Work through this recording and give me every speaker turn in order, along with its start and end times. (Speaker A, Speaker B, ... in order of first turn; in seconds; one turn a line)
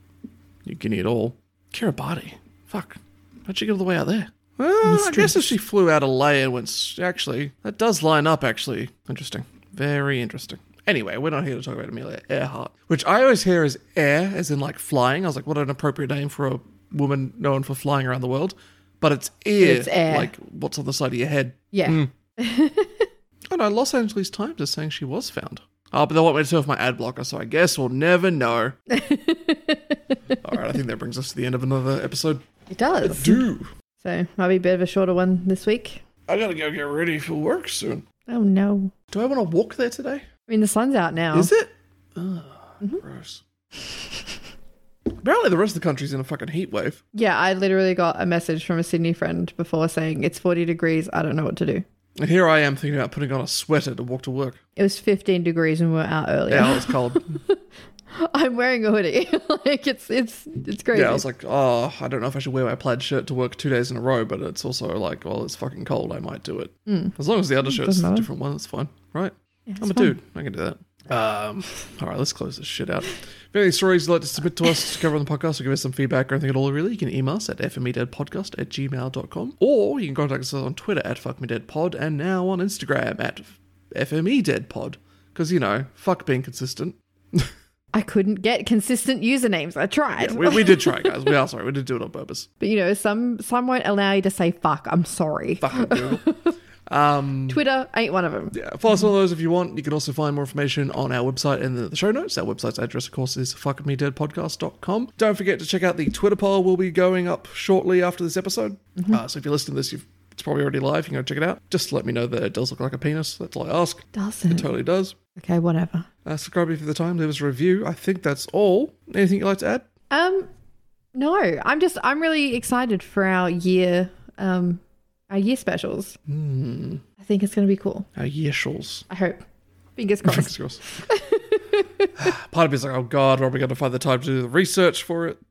Speaker A: 0.6-22.1
Speaker B: 4.8-5.5
Speaker B: 19.6-20.3
Speaker B: 21.7-23.1
Speaker A: 23.5-28.8
Speaker B: 28.9-30.4
Speaker A: 30.4-32.4
Speaker B: 32.7-33.5
Speaker A: 33.0-33.7
Speaker B: 34.0-36.0
Speaker A: 36.3-38.0
Speaker B: 38.3-38.9
Speaker A: 39.1-40.2
Speaker B: 40.5-41.5
Speaker A: 41.3-43.4
Speaker A: 45.2-47.0
Speaker B: 47.1-51.8
Speaker A: 52.2-54.6
Speaker B: 54.8-57.6
Speaker A: 56.5-57.3
Speaker B: 58.1-61.2
Speaker A: 60.9-87.5
Speaker B: 66.9-68.3
Speaker B: 69.7-70.1
Speaker B: 87.9-91.2
Speaker A: 90.2-92.5
Speaker B: 92.6-96.5
Speaker A: 95.6-96.2
Speaker A: 96.9-97.6
Speaker B: 97.5-98.6
Speaker A: 98.5-115.2
Speaker B: 114.1-114.7
Speaker B: 115.3-116.1
Speaker A: 116.2-119.8
Speaker B: 120.1-120.5
Speaker B: 121.1-126.2
Speaker A: 126.3-127.0
Speaker B: 127.2-128.1
Speaker A: 128.2-129.0
Speaker B: 129.1-129.4
Speaker B: 130.0-132.1
Speaker A: 130.2-130.8
Speaker A: 132.2-135.4